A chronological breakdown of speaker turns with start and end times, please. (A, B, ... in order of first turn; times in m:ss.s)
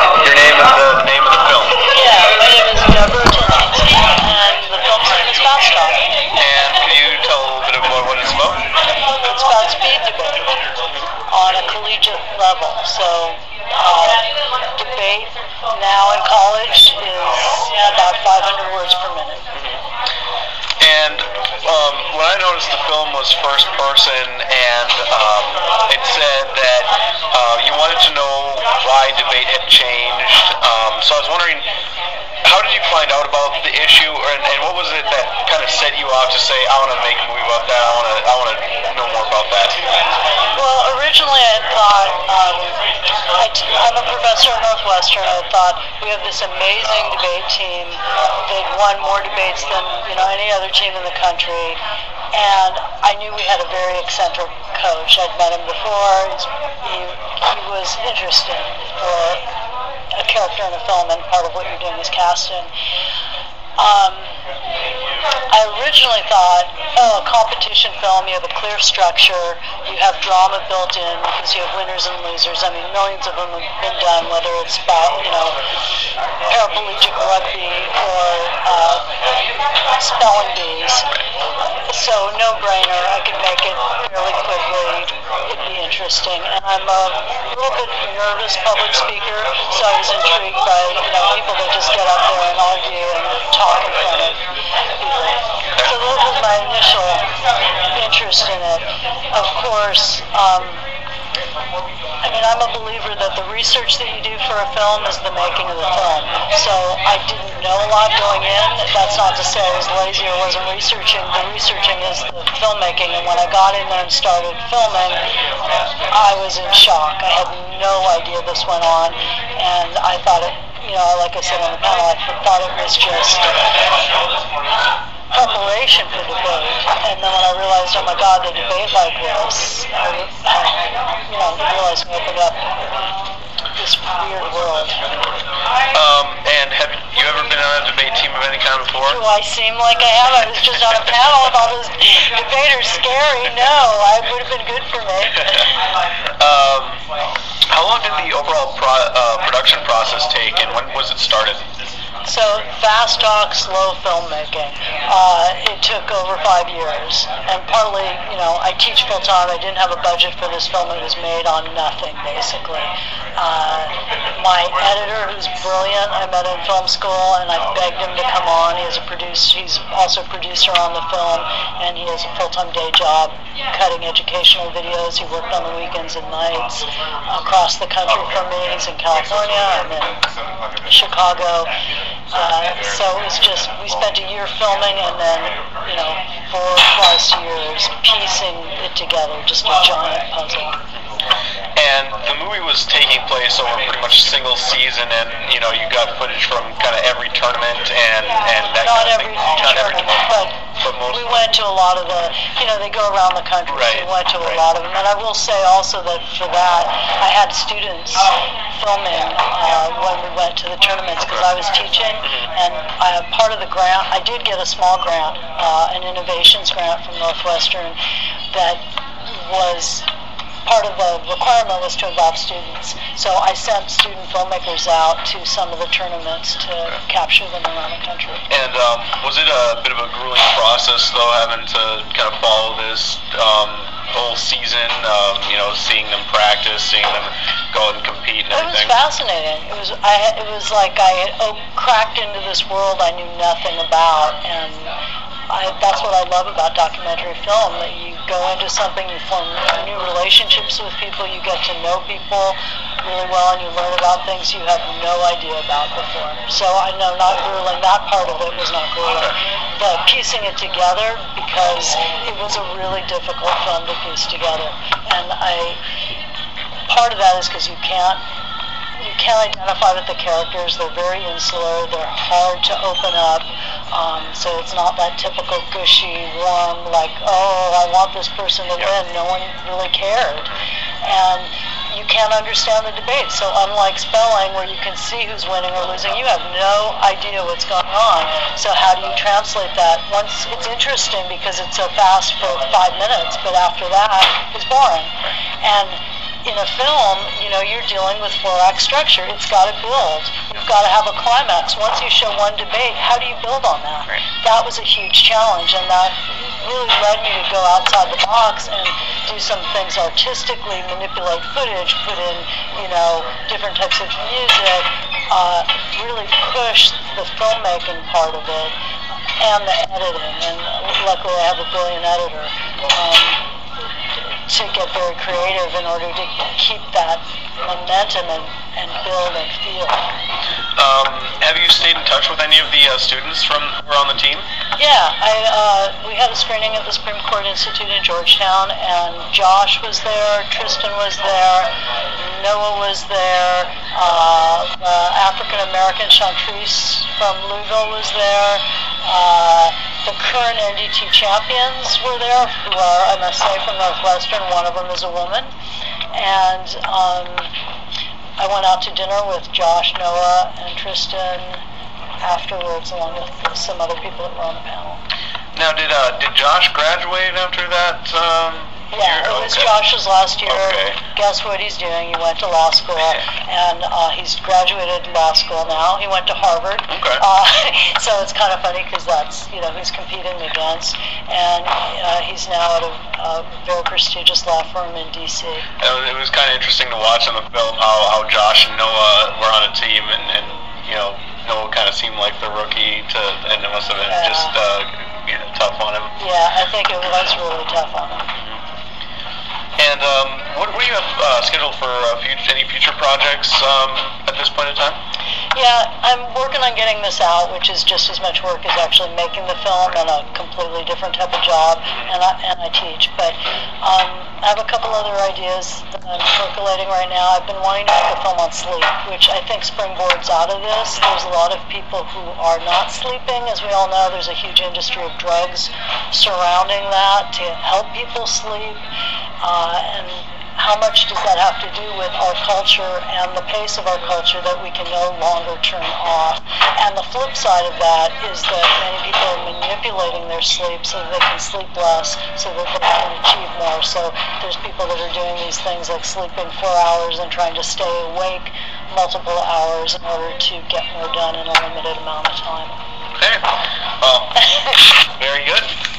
0:00.2-0:01.8 A
0:01.9-0:06.1 B
0:06.4-0:08.6 A
0:09.2-0:10.5 B
0:11.3-0:14.2 B
0:14.8-0:19.5 B
0:20.8-0:31.6 A
0:32.4-0:39.8 A
0:40.6-0:42.8 B
0:43.4-0:51.8 B
0:52.3-0:59.4 B
1:00.2-1:02.7 B
1:03.8-1:04.4 B
1:05.5-1:15.6 B
1:16.5-1:19.1 B
1:20.0-1:21.1 B
1:21.9-1:34.4 B
1:35.0-1:37.3 B
1:37.9-1:40.8 B
1:42.2-1:55.2 B
1:56.1-2:03.6 B
2:05.3-2:12.6 B
2:13.8-2:15.0 B
2:15.9-2:19.2 A
2:19.0-2:25.7 B
2:26.4-2:27.0 A
2:27.7-2:31.6 A
2:32.2-3:00.2 B
3:00.9-3:01.7 B
3:02.3-3:10.8 B
3:11.8-3:20.0 A
3:18.8-3:38.0 B
3:20.8-3:21.4 A
3:23.7-3:24.5 A
3:38.5-3:40.0 B
3:40.6-3:48.4 B
3:48.5-3:58.9 A
3:58.5-4:04.9 B
4:05.5-4:25.8 B
4:26.9-4:28.2 B
4:29.0-5:18.7 B
5:19.4-5:23.4 B
5:24.5-5:30.0 B
5:30.8-5:34.5 A
5:34.8-5:55.5 B
5:56.1-5:57.5 B
5:58.4-6:01.6 B
6:02.2-6:05.0 B
6:05.5-6:09.7 A
6:08.9-6:25.6 B
6:10.5-6:11.0 A
6:16.9-6:17.2 A
6:25.8-6:36.1 A
6:34.1-6:34.5 B
6:36.2-6:38.3 B
6:39.8-6:45.0 A
6:45.5-7:08.8 B
7:09.4-7:32.7 B
7:33.2-7:33.4 A
7:34.0-7:34.4 A
7:35.2-7:35.7 A